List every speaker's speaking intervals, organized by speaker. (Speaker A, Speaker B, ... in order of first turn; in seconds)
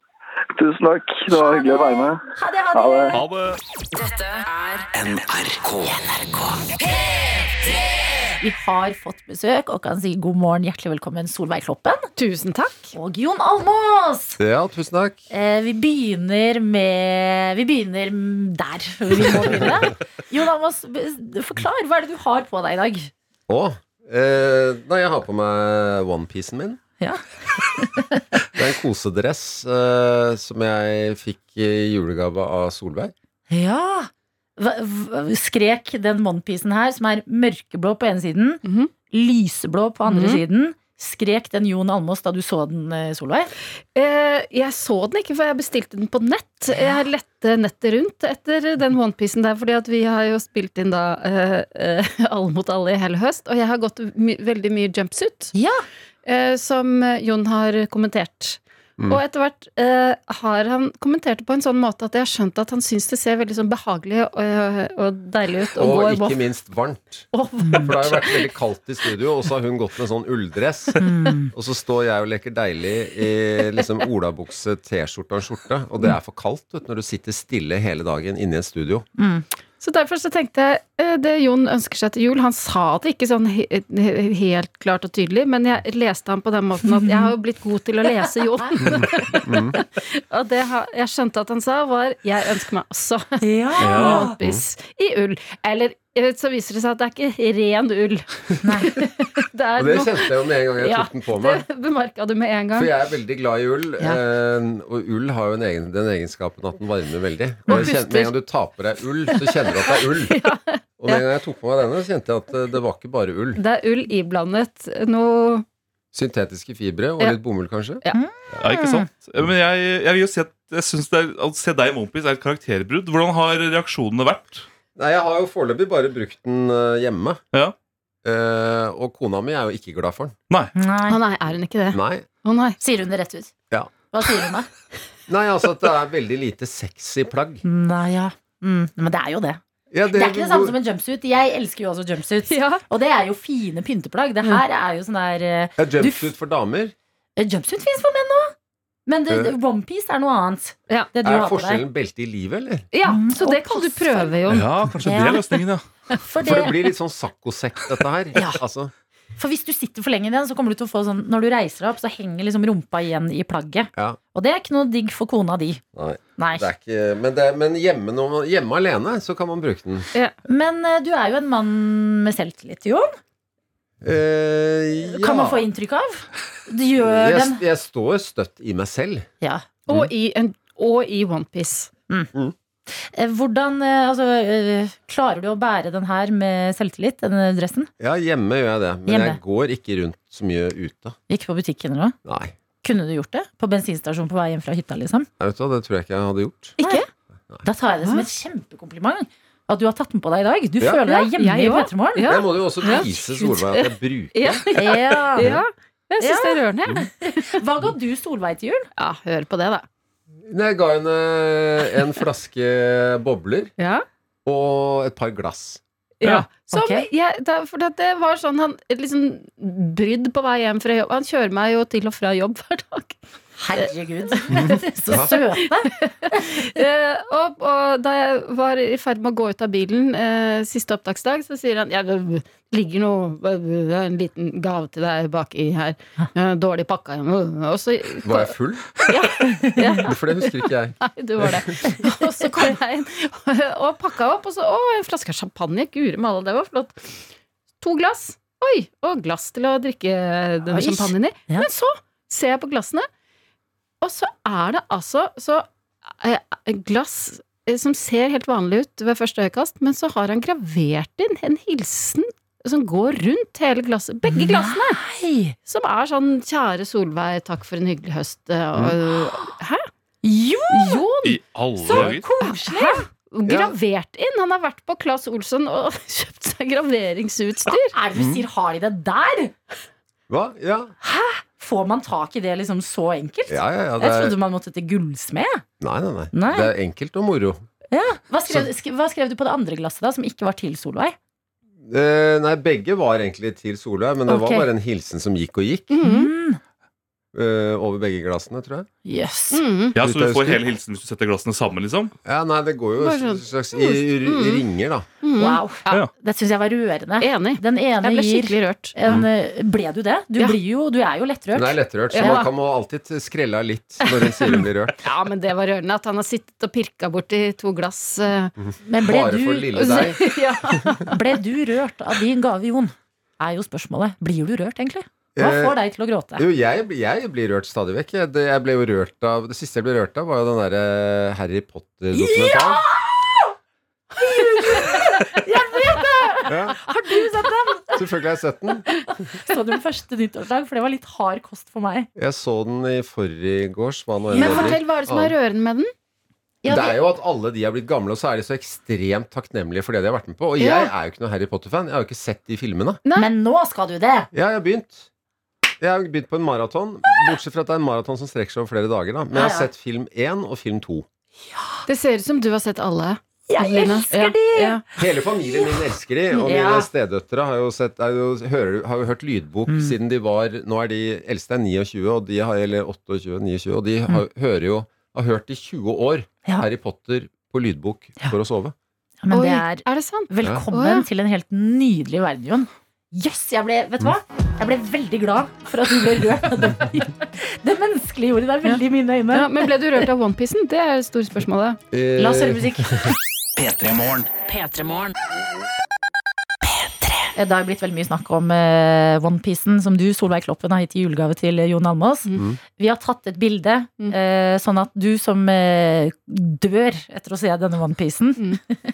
Speaker A: 0.6-2.2, 2.7-3.2
Speaker B: 1.3-3.2, 8.4-12.1, 12.9-14.4, 15.3-23.1, 27.0-28.2, 33.5-43.5, 46.7-47.0, 55.5-55.8, 67.6-68.0, 71.0-71.5, 79.2-79.5, 86.8-87.3, 93.4-94.3, 98.6-99.0, 107.7-108.0, 118.1-119.0, 130.7-131.2, 132.8-133.5, 134.1-134.7, 137.6-139.6, 140.1-146.3, 147.4-148.5, 149.1-151.8, 153.0-154.4, 155.0-155.5, 156.2-156.8, 158.3-158.6, 159.4-165.8, 166.4-166.7, 170.4-173.1, 175.1-177.6, 183.0-187.9, 189.1-189.4, 191.3-192.2, 192.8-195.3, 197.6-203.5, 204.7-205.6, 206.2-208.9, 216.3-217.1, 223.6-226.5, 239.4-240.0, 241.8-242.2, 250.7-251.7, 264.3-265.6, 270.2-271.1, 271.8-273.1, 277.7-279.5, 281.0-285.6, 286.3-286.7, 287.9-291.1, 294.3-294.7, 296.0-296.6, 299.0-299.6, 305.4-312.4, 318.8-320.1, 321.1-326.4, 332.1-333.5, 334.2-338.0, 339.4-342.1, 344.3-344.8, 346.6-347.0, 353.1-354.3, 359.3-359.7, 361.5-361.8, 363.5-364.8, 366.4-366.9, 369.7-370.0, 379.2-389.7, 392.2-392.9, 397.3-408.6
Speaker C: 3.1-3.6, 118.6-124.7, 154.5-155.8, 271.2-272.2, 300.0-302.1
Speaker D: 3.9-4.9, 394.4-395.1, 396.7-397.3
Speaker E: 4.9-6.7, 393.6-394.4
Speaker F: 12.2-12.9, 38.6-38.9, 40.1-40.4, 43.9-55.5, 56.2-66.4, 67.3-68.5, 79.8-102.9, 107.7-108.3, 109.2-111.2, 113.5-115.6, 131.1-132.8, 142.5-142.8, 152.9-154.7, 179.9-181.9, 196.8-197.1, 201.1-207.5, 209.0-209.8, 213.8-214.0, 216.2-223.2, 223.8-224.7, 225.6-247.2, 247.8-253.1, 254.0-255.7, 256.2-265.0, 265.6-269.9, 270.7-271.4, 272.1-277.9, 295.9-296.3, 299.5-300.0, 303.0-304.6, 305.2-306.0, 307.2-308.9, 312.1-312.5, 314.0-318.5, 319.7-321.2, 334.6-335.1, 344.3-345.9, 350.6-350.9, 361.9-364.8, 379.3-381.1, 388.6-391.8
Speaker G: 14.4-15.2, 23.5-26.8, 28.5-33.1, 65.8-67.3, 67.8-79.0, 88.9-89.8, 93.9-94.6, 99.8-101.6, 102.7-110.4, 111.0-113.6, 116.1-118.6, 125.0-127.4, 128.2-130.3, 131.9-132.3, 135.3-137.6, 139.9-140.7, 145.8-146.9, 149.3-149.6, 151.2-152.8, 156.4-158.9, 165.9-170.1, 174.0-175.6, 177.0-179.3, 188.0-191.2, 192.2-192.5, 195.4-196.8, 202.2-204.6, 210.4-213.7, 214.4-215.8, 224.5-225.3, 238.2-239.0, 240.0-241.7, 273.5-273.7, 278.1-278.4, 280.3-280.9, 283.5-284.4, 285.8-287.6, 291.9-295.9, 297.3-298.9, 300.0-300.6, 302.2-305.1, 311.5-314.9, 318.6-320.2, 325.4-325.8, 326.4-332.8, 336.4-336.8, 337.9-338.9, 342.1-345.3, 346.7-353.0, 354.3-355.1, 355.8-361.1, 365.0-378.7, 391.9-393.1